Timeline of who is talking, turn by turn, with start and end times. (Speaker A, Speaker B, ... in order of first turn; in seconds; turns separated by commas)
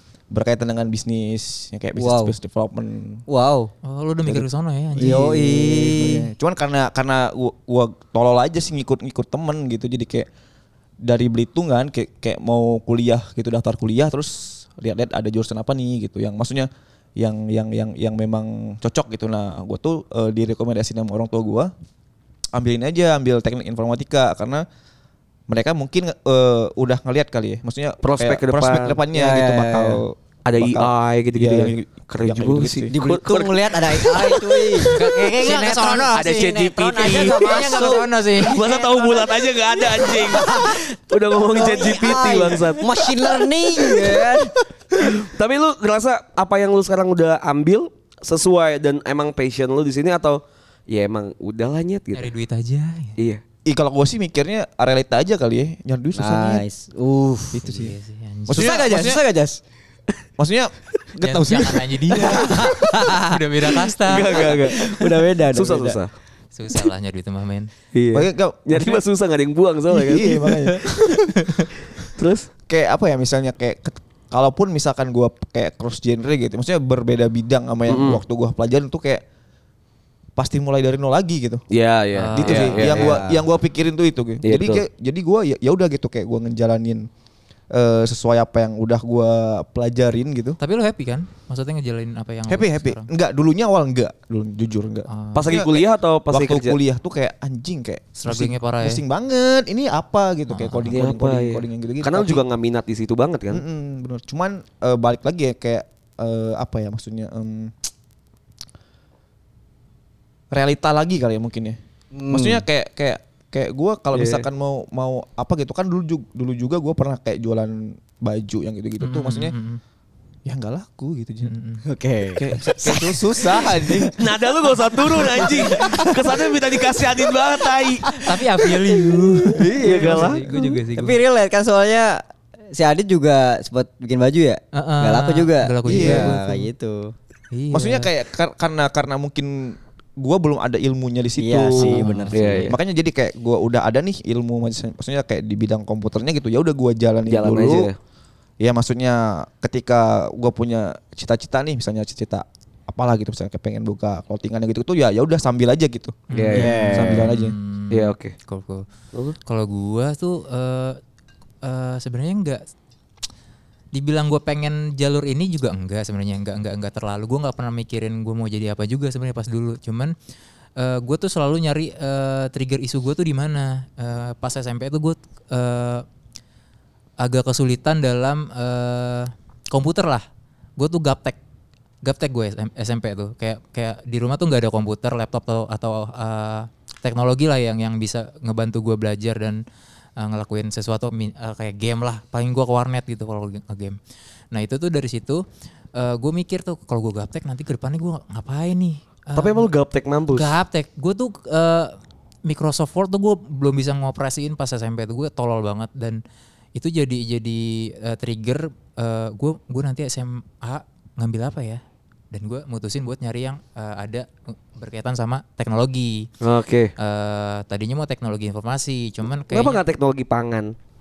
Speaker A: 0.3-3.2, Speaker B: 1.9-2.3, Speaker B: 3.3-3.7, Speaker C: 3.8-5.3, Speaker A: 4.2-10.3, Speaker B: 5.0-6.3, Speaker A: 11.0-21.7, Speaker A: 22.5-24.6, Speaker A: 25.5-32.9, Speaker D: 28.0-29.0, Speaker B: 29.1-30.0, Speaker D: 30.4-35.0, Speaker B: 32.9-44.6, Speaker C: 34.9-38.7, Speaker D: 36.1-43.1, Speaker D: 43.8-44.3, Speaker D: 44.9-52.3, Speaker C: 52.1-53.1, Speaker A: 53.6-56.6, Speaker B: 56.1-57.9, Speaker A: 57.5-57.9, Speaker C: 57.6-58.8, Speaker A: 58.5-59.2, Speaker B: 58.5-59.6, Speaker A: 60.4-62.7, Speaker C: 61.2-64.6, Speaker B: 62.2-66.0, Speaker D: 64.0-64.9, Speaker D: 65.5-66.1, Speaker C: 66.5-67.7, Speaker D: 67.9-71.0, Speaker A: 68.1-69.0, Speaker A: 69.9-71.1, Speaker C: 70.4-70.8, Speaker D: 72.1-72.5, Speaker A: 72.7-79.2, Speaker D: 77.9-78.2, Speaker A: 80.3-81.6, Speaker D: 81.7-83.1, Speaker C: 82.1-83.0, Speaker A: 82.3-87.1, Speaker B: 82.8-83.4, Speaker D: 84.4-84.8, Speaker A: 87.7-90.6, Speaker C: 90.6-93.1, Speaker A: 92.5-102.4, Speaker C: 95.1-95.5, Speaker D: 95.3-96.8, Speaker C: 98.2-99.0, Speaker C: 100.5-101.0, Speaker D: 100.9-103.6, Speaker A: 103.5-107.8, Speaker A: 110.5-111.8, Speaker B: 112.1-112.6, Speaker A: 112.3-119.5, Speaker D: 114.1-114.4, Speaker C: 119.0-119.8, Speaker A: 120.4-121.5, Speaker C: 121.5-121.8, Speaker B: 121.8-124.0, Speaker A: 122.3-124.2, Speaker D: 124.2-128.1, Speaker A: 125.0-126.2, Speaker B: 125.5-126.2, Speaker C: 128.1-131.2, Speaker A: 129.2-130.6, Speaker D: 129.8-130.4, Speaker B: 130.5-132.2, Speaker B: 132.7-137.1, Speaker C: 134.7-136.7, Speaker A: 135.8-136.3, Speaker C: 137.5-138.1, Speaker A: 137.7-142.1, Speaker B: 141.4-142.7, Speaker C: 141.8-142.7, Speaker D: 142.3-142.8, Speaker A: 142.6-147.9, Speaker D: 147.3-147.9, Speaker A: 148.6-157.5, Speaker D: 156.3-156.7, Speaker C: 156.3-158.8, Speaker B: 156.5-157.3, Speaker D: 157.9-158.3, Speaker C: 159.4-161.0, Speaker C: 161.6-162.6, Speaker C: 163.9-170.1, Speaker C: 170.8-176.0, Speaker C: 177.2-180.2, Speaker C: 180.8-181.4, Speaker C: 182.0-189.6, Speaker C: 190.2-194.0, Speaker C: 194.5-195.4, Speaker C: 195.9-199.7, Speaker D: 199.3-200.5, Speaker C: 200.3-206.2, Speaker C: 206.7-216.3, Speaker D: 216.4-216.9, Speaker C: 217.0-219.8, Speaker D: 219.5-220.7